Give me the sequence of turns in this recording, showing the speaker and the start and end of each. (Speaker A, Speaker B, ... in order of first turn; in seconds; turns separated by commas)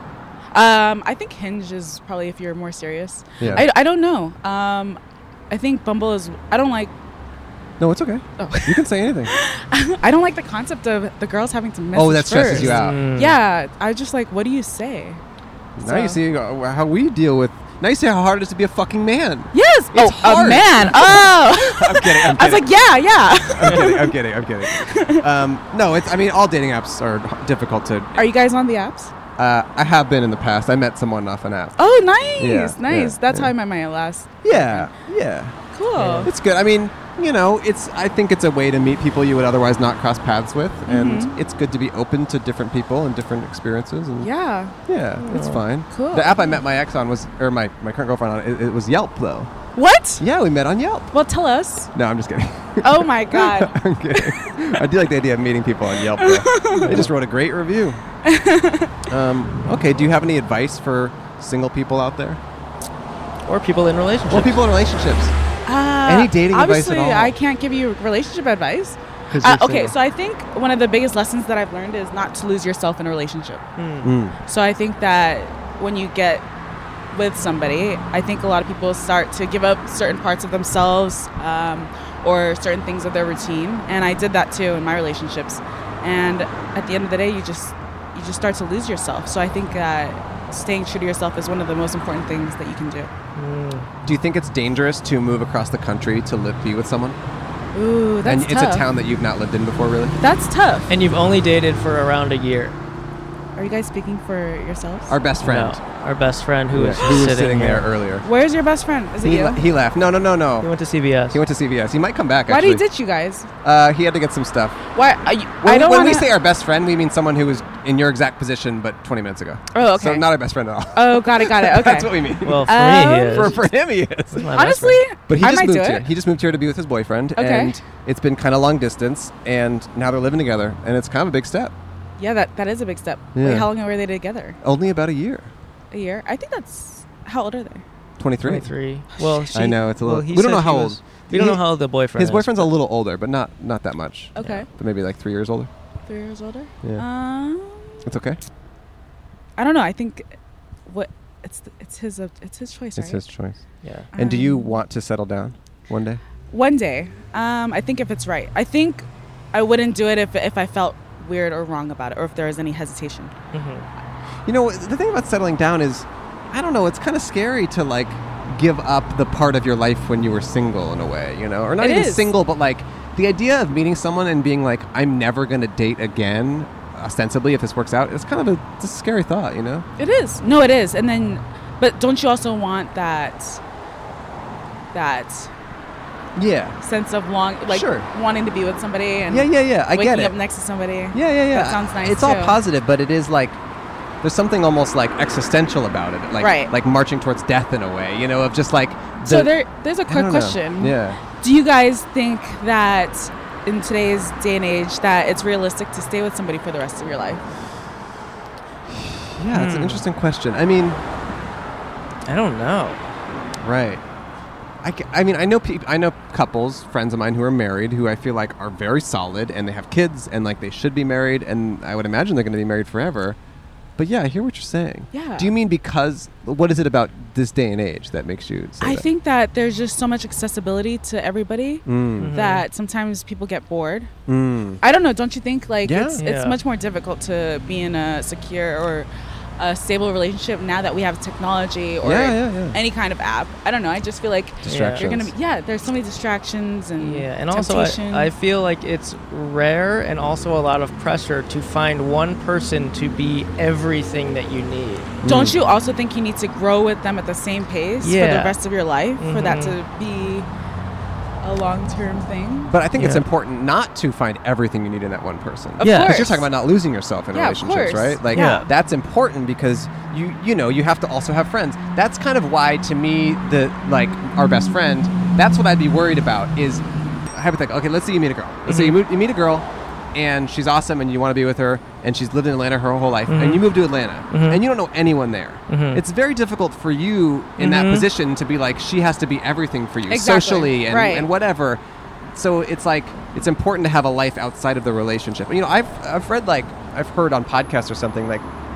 Speaker A: 0.5-6.9, Speaker B: 3.4-3.6, Speaker B: 7.8-9.3, Speaker A: 8.4-15.2, Speaker B: 11.9-13.0, Speaker C: 12.5-13.4, Speaker A: 15.8-16.2, Speaker B: 15.8-22.7, Speaker A: 19.5-25.3, Speaker B: 23.5-28.3, Speaker A: 28.2-29.1, Speaker B: 29.4-31.8, Speaker A: 31.8-34.9, Speaker B: 32.4-33.5, Speaker B: 34.4-35.6, Speaker A: 35.7-36.3, Speaker C: 36.0-36.3, Speaker B: 36.2-44.3, Speaker A: 40.9-41.3, Speaker A: 44.2-44.7, Speaker B: 44.9-49.5, Speaker C: 45.2-45.6, Speaker A: 45.9-46.6, Speaker A: 49.7-50.2, Speaker B: 50.2-51.1, Speaker A: 51.1-51.9, Speaker B: 51.9-58.0, Speaker A: 52.8-54.5, Speaker A: 56.1-57.1, Speaker C: 56.8-57.1, Speaker A: 58.2-58.9, Speaker B: 59.1-62.4, Speaker C: 63.5-64.6, Speaker B: 64.3-65.3, Speaker A: 65.7-73.6, Speaker B: 66.0-67.3, Speaker C: 69.3-69.9, Speaker C: 73.8-74.1, Speaker B: 74.0-74.4, Speaker A: 74.4-76.4, Speaker A: 77.1-93.1, Speaker C: 93.3-93.9, Speaker B: 94.0-97.2, Speaker A: 97.7-98.9, Speaker B: 98.2-100.2, Speaker A: 100.2-100.9, Speaker C: 100.9-102.8, Speaker A: 103.5-105.2, Speaker B: 105.1-105.8, Speaker C: 105.4-107.9, Speaker B: 106.7-108.2, Speaker A: 108.2-109.6, Speaker B: 109.2-110.7, Speaker C: 110.6-111.4, Speaker B: 111.3-112.8, Speaker A: 112.5-113.5, Speaker B: 113.6-114.8, Speaker A: 114.9-116.3, Speaker B: 115.6-122.7, Speaker A: 119.7-120.3, Speaker A: 120.9-122.1, Speaker C: 122.4-123.6, Speaker A: 122.6-123.6, Speaker B: 123.3-124.5, Speaker C: 124.3-125.0, Speaker A: 124.5-126.1, Speaker B: 125.3-131.7, Speaker A: 127.3-127.8, Speaker A: 132.2-134.6, Speaker B: 133.3-133.7, Speaker B: 134.6-135.5, Speaker A: 135.9-137.8, Speaker B: 138.2-138.7, Speaker C: 138.4-142.7, Speaker A: 139.1-139.8, Speaker B: 139.5-145.7, Speaker A: 144.3-144.7, Speaker C: 144.4-144.7, Speaker A: 146.1-148.0, Speaker B: 148.0-148.4, Speaker A: 149.6-150.3, Speaker A: 150.9-153.2, Speaker B: 152.9-153.6, Speaker C: 153.8-154.1, Speaker A: 154.1-154.8, Speaker B: 154.1-156.2, Speaker A: 156.5-163.3, Speaker C: 163.5-163.9, Speaker B: 164.4-179.8, Speaker A: 171.8-172.3, Speaker A: 180.0-183.6, Speaker A: 184.9-185.5, Speaker B: 186.3-186.8, Speaker A: 186.8-192.6, Speaker B: 187.7-188.1, Speaker B: 189.3-190.3, Speaker B: 191.1-193.6, Speaker B: 194.2-199.5, Speaker A: 196.4-196.7, Speaker A: 199.2-207.4, Speaker B: 200.1-201.2, Speaker B: 208.9-211.0, Speaker C: 209.5-210.0, Speaker C: 212.2-213.0, Speaker B: 213.6-214.0, Speaker B: 214.8-223.4, Speaker B: 224.0-229.1, Speaker A: 225.1-225.6, Speaker A: 228.8-234.1, Speaker B: 231.8-232.4, Speaker C: 232.2-232.7, Speaker B: 234.3-234.8, Speaker A: 234.8-239.1, Speaker B: 235.8-236.2, Speaker C: 236.2-236.6, Speaker A: 239.6-248.3, Speaker B: 242.0-242.8, Speaker C: 244.6-245.1, Speaker B: 244.6-245.3, Speaker C: 247.0-255.1, Speaker B: 255.2-255.6, Speaker A: 255.2-260.5, Speaker C: 258.0-258.6, Speaker C: 259.2-259.8, Speaker A: 261.4-262.7, Speaker B: 262.7-298.5, Speaker C: 263.0-263.2, Speaker A: 265.8-266.5, Speaker C: 265.8-266.3, Speaker A: 267.3-268.7, Speaker C: 268.3-268.7, Speaker C: 278.7-279.0, Speaker C: 283.3-283.7, Speaker C: 284.3-284.6, Speaker C: 285.7-286.0, Speaker C: 287.6-288.1, Speaker A: 290.1-291.3